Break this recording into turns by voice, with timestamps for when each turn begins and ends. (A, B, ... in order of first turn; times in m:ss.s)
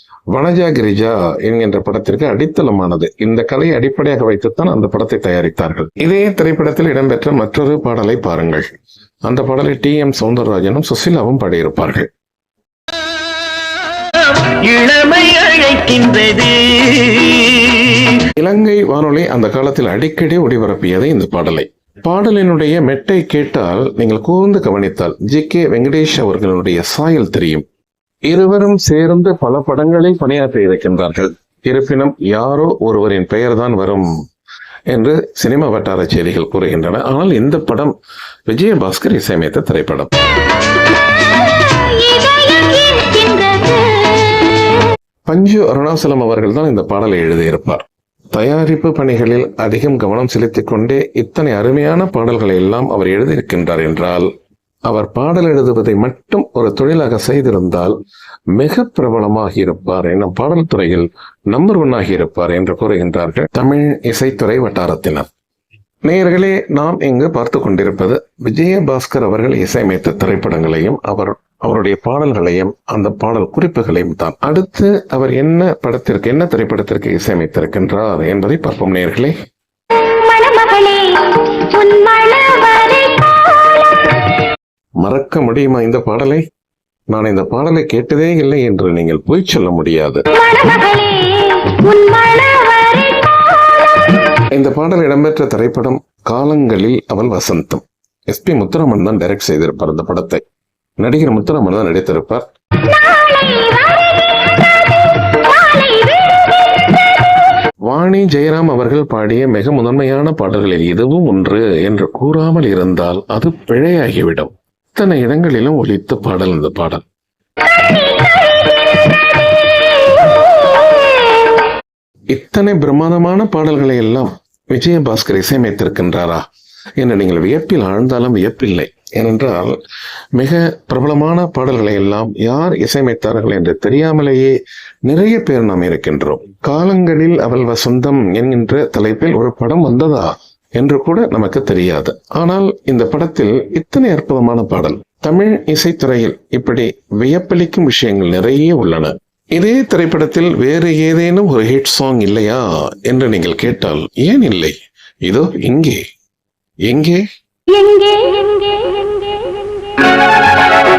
0:00.3-0:08.7 A
0:09.3-0:12.1 A
0:14.3-0:18.0 B
0:18.4-0:27.6 A
0:28.3-0:34.1 A
0:34.9-0:38.0 A
0:38.5-0:40.1 A
0:41.6-0:44.7 C
0:45.3-0:54.3 A
0:54.9-0:58.0 A
0:58.5-1:05.3 A
1:06.0-1:19.3 A
1:20.0-1:24.3 C
1:25.0-1:26.4 A
1:27.1-1:30.2 A
1:30.3-1:34.2 C
1:34.5-1:40.4 A
1:41.0-1:42.5 A
1:42.8-1:47.2 C
1:47.9-1:57.0 A
2:02.3-2:06.4 A
2:07.0-2:09.8 A
2:10.4-2:36.0 A
2:36.9-2:37.2 A
2:37.7-2:40.2 C